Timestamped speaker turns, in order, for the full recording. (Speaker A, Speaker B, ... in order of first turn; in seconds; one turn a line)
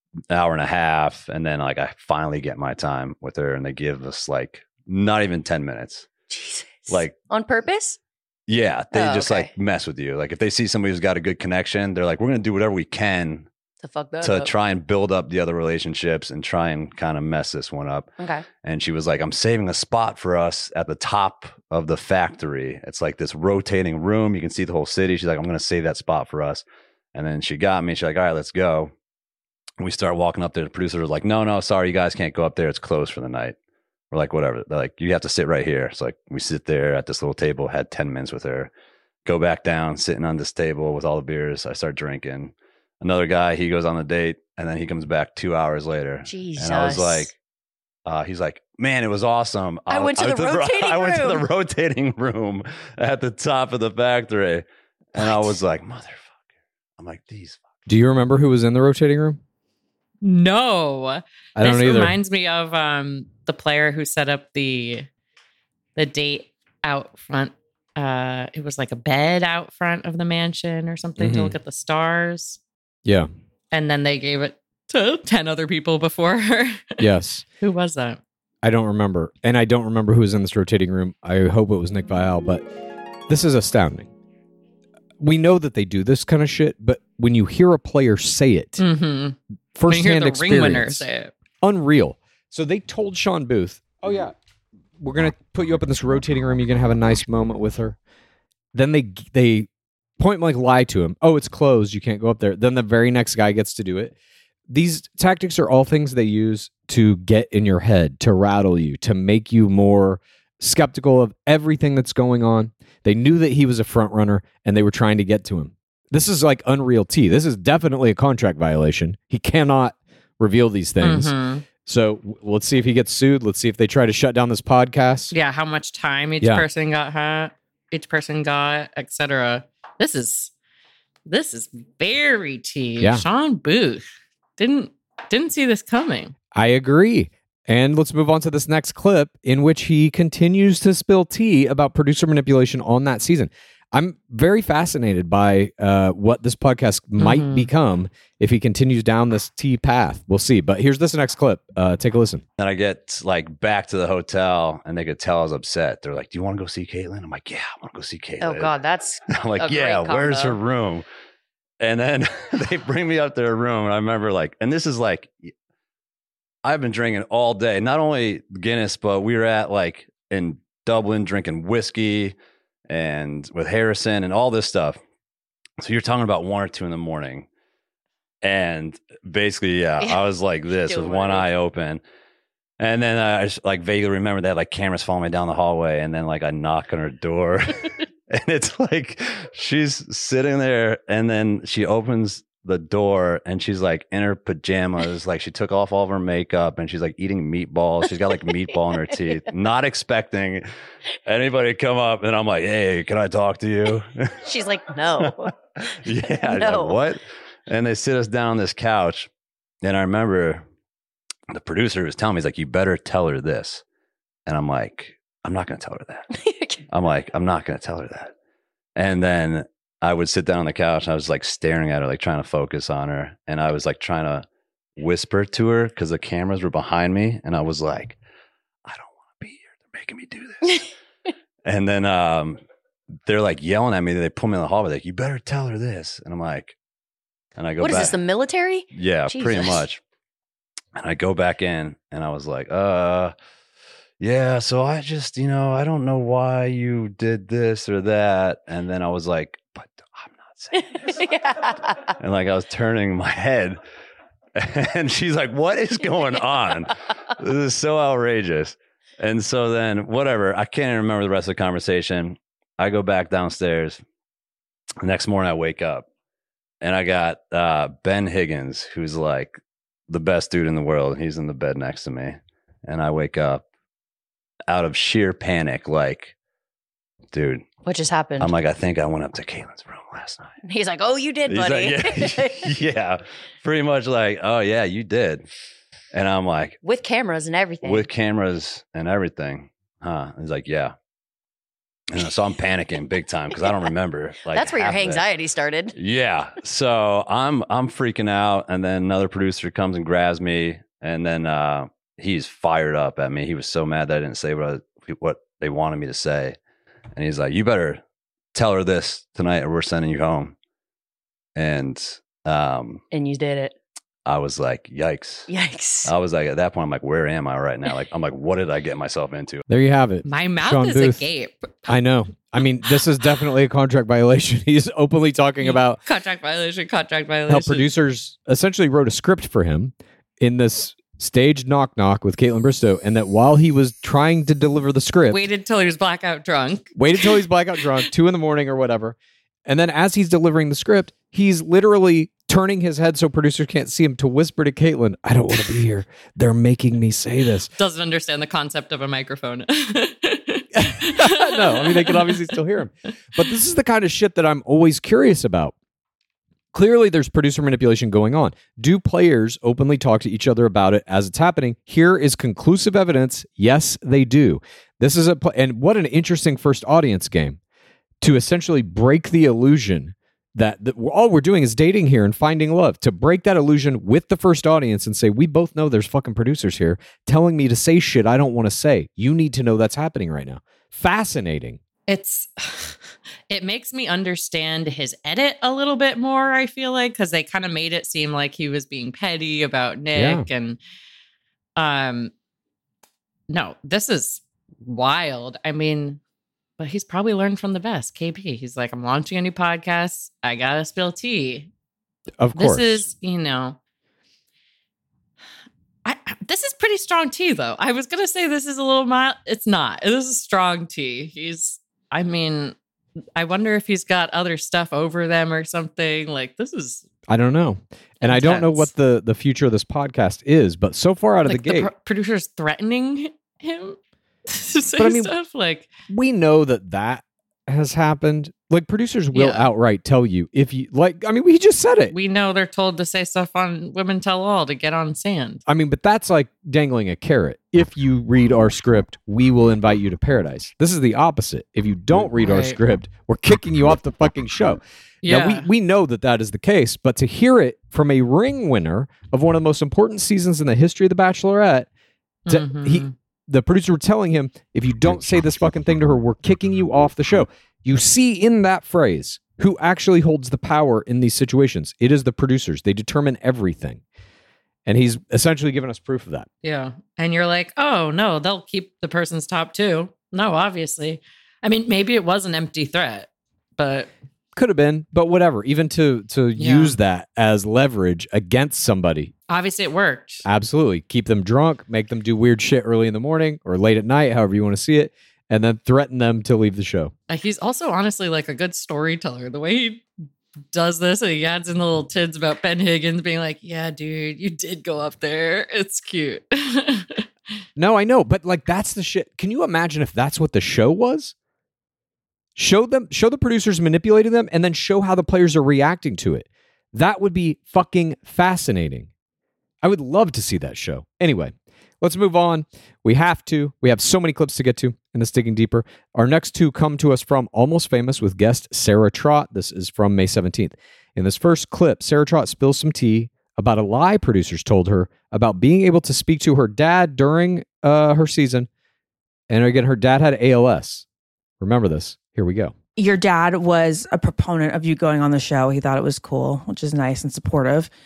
Speaker A: 0.3-6.1
Speaker B: 6.3-8.0
Speaker A: 6.9-7.1
Speaker A: 8.5-13.5
Speaker B: 8.9-9.5
Speaker B: 13.8-14.5
Speaker A: 14.2-28.9
Speaker B: 18.2-18.4
Speaker A: 29.8-33.5
Speaker A: 34.1-38.7
Speaker A: 39.2-47.3
Speaker B: 46.2-47.3
Speaker A: 48.0-56.3
Speaker B: 49.9-51.4
Speaker B: 55.2-55.5
Speaker A: 57.0-57.6
Speaker C: 57.9-59.4
Speaker D: 60.2-65.1
Speaker C: 61.5-62.1
Speaker D: 66.0-72.6
Speaker C: 71.2-71.5
Speaker D: 73.7-77.0
Speaker C: 77.0-77.4
Speaker D: 77.6-78.2
Speaker C: 78.6-82.7
Speaker C: 83.3-84.1
Speaker C: 85.2-88.8
Speaker D: 88.8-91.3
Speaker C: 89.8-91.1
Speaker C: 91.6-94.3
Speaker C: 95.0-98.0
Speaker C: 98.7-99.7
Speaker C: 100.2-104.1
Speaker C: 104.7-125.3
Speaker D: 121.0-121.7
Speaker D: 125.3-130.5
Speaker C: 126.4-126.7
Speaker D: 131.2-134.0
Speaker C: 133.0-133.2
Speaker D: 134.6-136.3
Speaker C: 136.5-152.4
Speaker D: 147.2-147.7
Speaker A: 152.6-158.8
Speaker B: 158.4-160.6
Speaker A: 159.3-161.0
Speaker A: 161.8-165.5
Speaker A: 166.6-172.3
Speaker A: 172.9-175.0
Speaker A: 175.8-177.5
Speaker A: 178.4-182.0
Speaker B: 180.0-181.5
Speaker A: 182.8-200.6
Speaker A: 201.2-204.5
Speaker B: 204.4-205.5
Speaker A: 205.2-209.3
Speaker B: 206.1-207.0
Speaker A: 209.8-210.6
Speaker A: 211.5-213.8
Speaker A: 214.5-216.3
Speaker B: 216.3-216.8
Speaker A: 216.9-218.3
Speaker A: 218.9-228.2
Speaker A: 228.8-230.8
Speaker A: 231.6-232.6
Speaker A: 233.2-236.8
Speaker A: 237.6-238.2
Speaker B: 237.8-239.8
Speaker A: 238.9-240.0
Speaker A: 240.9-243.3
Speaker A: 244.2-251.2
Speaker B: 250.8-252.1
Speaker A: 252.1-253.8
Speaker A: 254.5-264.0
Speaker A: 265.0-266.1
Speaker A: 266.8-273.6
Speaker A: 274.7-276.3
Speaker A: 277.3-277.7
Speaker B: 277.8-278.5
Speaker A: 278.4-280.6
Speaker B: 280.6-282.7
Speaker A: 281.4-285.5
Speaker A: 286.1-286.8
Speaker B: 286.8-288.1
Speaker A: 287.8-290.9
Speaker A: 292.1-295.3
Speaker B: 294.5-295.9
Speaker A: 295.9-306.6
Speaker A: 307.1-308.0
Speaker A: 308.5-310.5
Speaker A: 311.6-313.0
Speaker B: 313.1-313.7
Speaker A: 314.2-315.5
Speaker B: 315.5-316.1
Speaker A: 316.0-319.6
Speaker C: 319.7-321.3
Speaker D: 320.2-322.0
Speaker C: 321.9-326.0
Speaker D: 325.6-327.9
Speaker C: 327.5-335.4
Speaker D: 335.3-337.4
Speaker C: 336.9-347.7
Speaker D: 347.7-352.6
Speaker C: 350.8-355.7
Speaker C: 356.7-367.6
Speaker C: 368.2-381.8
Speaker D: 382.1-390.8
Speaker C: 390.1-390.4
Speaker D: 391.8-392.3
Speaker D: 393.5-396.2
Speaker D: 396.8-401.7
Speaker C: 402.4-403.0
Speaker D: 402.5-403.8
Speaker D: 406.0-412.8
Speaker D: 413.4-417.1
Speaker C: 417.3-421.9
Speaker D: 418.2-418.9
Speaker D: 421.4-424.0
Speaker D: 424.5-425.9
Speaker C: 425.0-425.3
Speaker C: 426.1-432.1
Speaker D: 429.3-429.6
Speaker D: 432.1-435.6
Speaker C: 435.7-451.9
Speaker D: 442.4-442.8
Speaker D: 445.2-445.7
Speaker D: 452.5-453.1
Speaker C: 452.5-464.0
Speaker C: 464.9-466.5
Speaker D: 466.6-474.1
Speaker C: 474.6-479.3
Speaker D: 476.6-477.0
Speaker D: 479.5-480.4
Speaker C: 480.4-487.1
Speaker D: 487.3-490.1
Speaker D: 490.7-497.2
Speaker C: 497.8-501.3
Speaker C: 502.6-509.1
Speaker C: 509.8-528.7
Speaker C: 529.5-531.0
Speaker C: 531.6-532.7
Speaker E: 533.0-537.9